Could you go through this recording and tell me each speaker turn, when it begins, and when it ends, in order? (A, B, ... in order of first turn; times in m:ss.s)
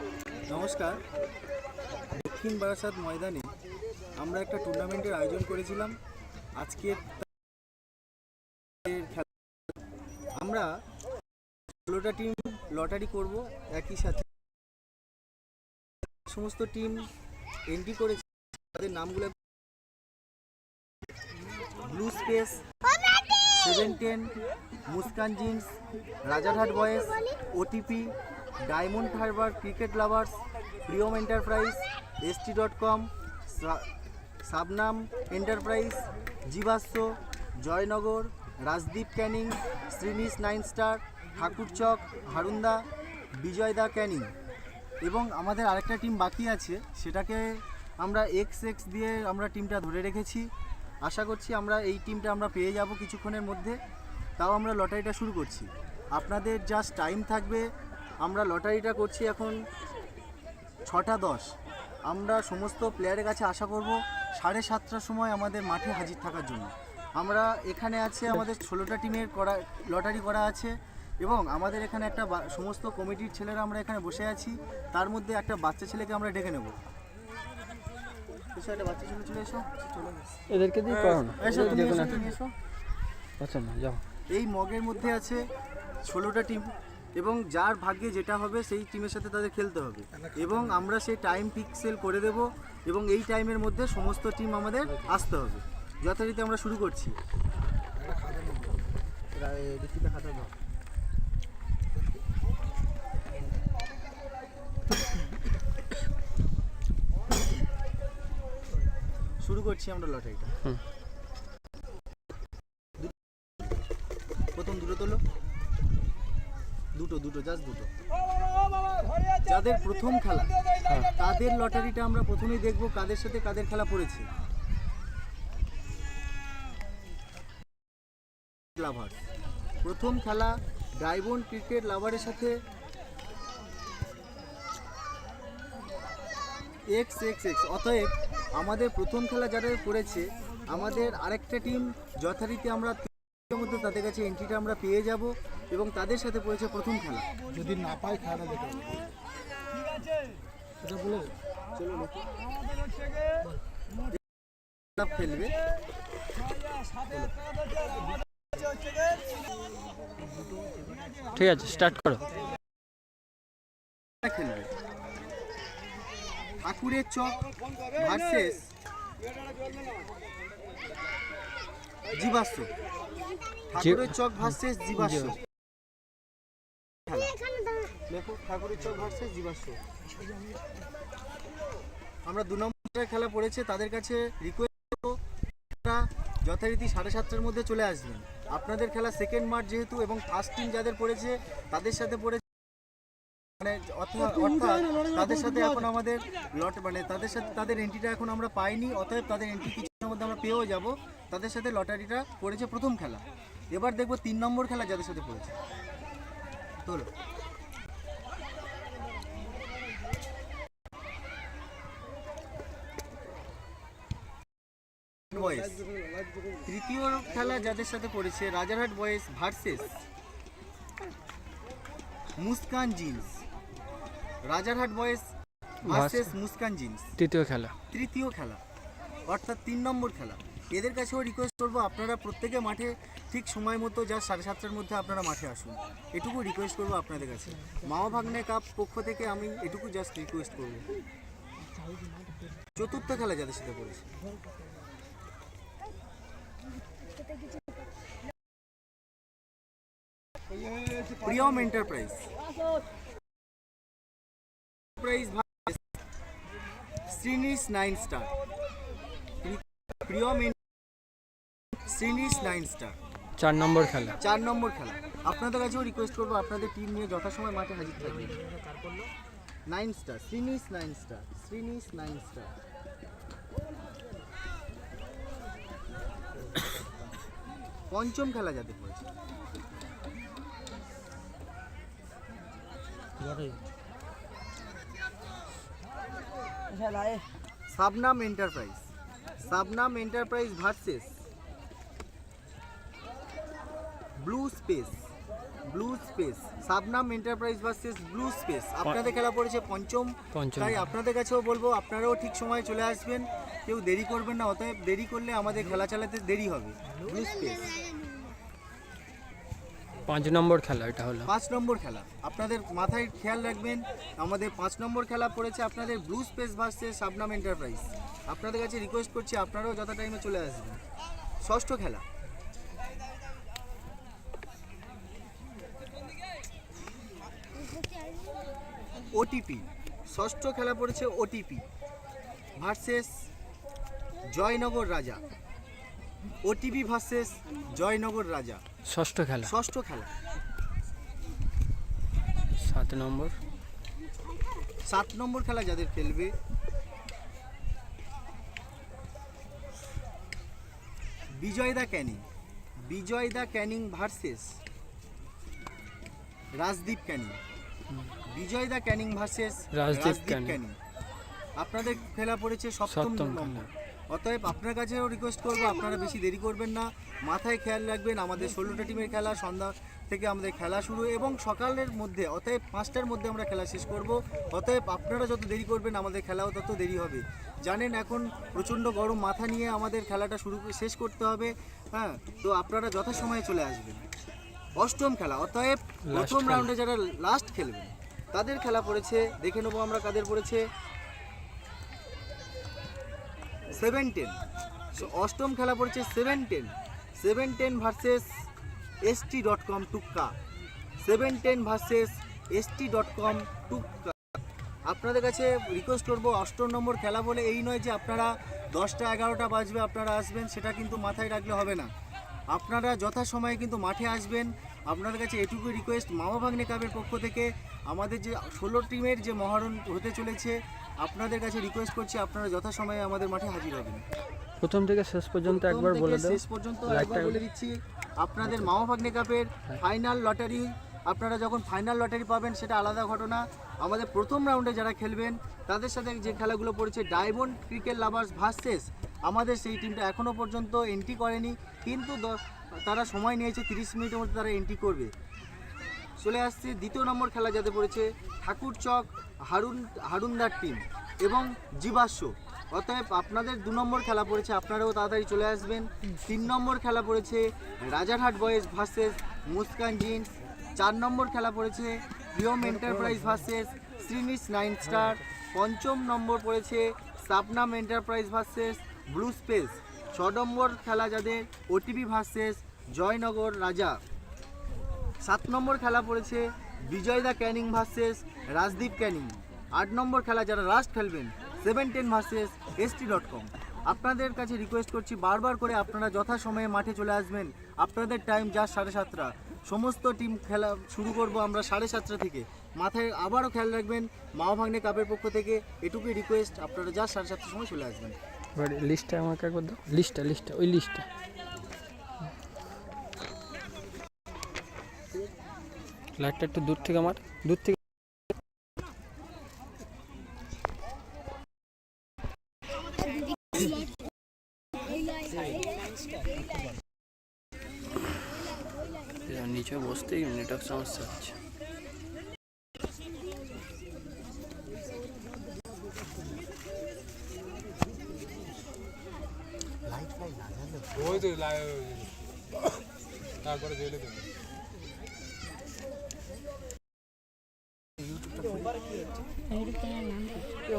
0:00.5-0:01.0 A
0:02.1-0:03.5 A
0:04.2-0:06.0 A
0:06.6-0:07.2 A
0:08.8-0:09.3 A
0:10.4-0:10.7 A
0:11.8-0:14.3 A
0:16.3-0:17.1 A
0:17.7-0:19.4 A
0:21.8-0:22.6 A
0:23.6-0:24.3 A
0:24.9-0:25.7 A
0:26.2-0:28.1 A
0:28.6-0:33.8 A
0:34.4-0:42.8 A
0:43.4-0:44.3 A
0:45.0-0:47.4 A
0:48.0-0:50.5 A
0:51.0-0:53.8 A
0:54.4-0:57.6 A
0:58.2-0:59.6 A
1:00.9-1:01.5 A
1:02.1-1:16.8 A
1:18.5-1:19.7 A
1:20.5-1:22.3 B
1:21.4-1:22.5 A
1:23.4-1:24.0 B
1:24.3-1:25.4 A
1:26.0-1:37.2 A
1:39.4-1:40.5 C
1:49.4-1:50.5 A
1:54.5-1:55.2 A
1:56.9-1:57.9 A
1:59.4-2:00.5 A
2:00.8-2:01.1 B
2:01.2-2:04.3 A
2:08.8-2:09.2 A
2:09.8-2:12.6 A
2:16.9-2:27.3 A
2:27.7-2:28.9 C
2:35.0-2:35.6 A
2:41.3-2:42.3 B
2:44.2-2:44.6 A
2:46.6-2:47.4 A
2:47.9-2:48.7 A
2:52.1-2:52.7 A
2:53.7-2:55.4 A
2:53.8-2:55.3 B
2:57.1-2:57.4 A
2:58.1-2:59.8 A
3:02.2-3:05.2 A
3:05.8-3:12.4 A
3:13.6-3:25.5 A
3:26.8-3:27.1 A
3:35.3-3:35.8 A
3:36.6-3:40.0 A
3:42.4-3:43.4 A
3:44.4-3:45.3 A
3:45.8-3:46.4 B
3:45.8-3:47.1 A
3:47.2-3:47.7 B
3:47.9-3:48.6 A
3:49.3-4:00.8 A
4:02.8-4:04.0 A
4:11.2-4:12.2 A
4:15.0-4:15.8 A
4:17.1-4:18.3 A
4:19.4-4:20.6 A
4:21.8-4:23.0 A
4:23.4-4:24.2 B
4:24.2-4:28.4 A
4:29.7-4:32.5 A
4:37.9-4:39.0 A
4:47.7-4:48.8 A
4:49.4-4:51.2 A
4:54.2-4:55.0 A
4:55.6-5:07.8 A
5:00.3-5:00.9 B
5:10.0-5:11.3 B
5:11.2-5:20.8 A
5:21.4-5:22.0 A
5:29.1-5:31.6 A
5:32.6-5:33.2 A
5:34.3-5:35.3 A
5:36.4-5:38.6 A
5:38.8-5:39.5 B
5:39.4-5:40.1 A
5:42.6-5:43.4 B
5:44.8-5:46.3 A
5:51.4-5:52.2 A
5:52.8-5:54.5 A
5:56.6-5:57.4 A
5:58.2-6:00.8 A
5:59.7-6:00.6 B
6:01.6-6:24.1 A
6:02.9-6:03.7 B
6:24.7-6:30.6 A
6:26.1-6:26.7 B
6:33.7-6:34.4 A
6:34.9-6:38.3 A
6:39.0-6:40.3 A
6:41.0-6:44.4 A
6:44.9-6:51.9 A
6:52.5-7:04.0 A
7:04.6-7:07.4 B
7:05.4-7:25.1 A
7:08.4-7:08.7 B
7:26.2-7:54.0 A
7:55.2-8:18.2 A
8:18.5-8:21.1 B
8:26.2-8:27.8 B
8:39.2-8:41.4 B
8:50.9-8:51.6 C
8:59.5-9:00.6 C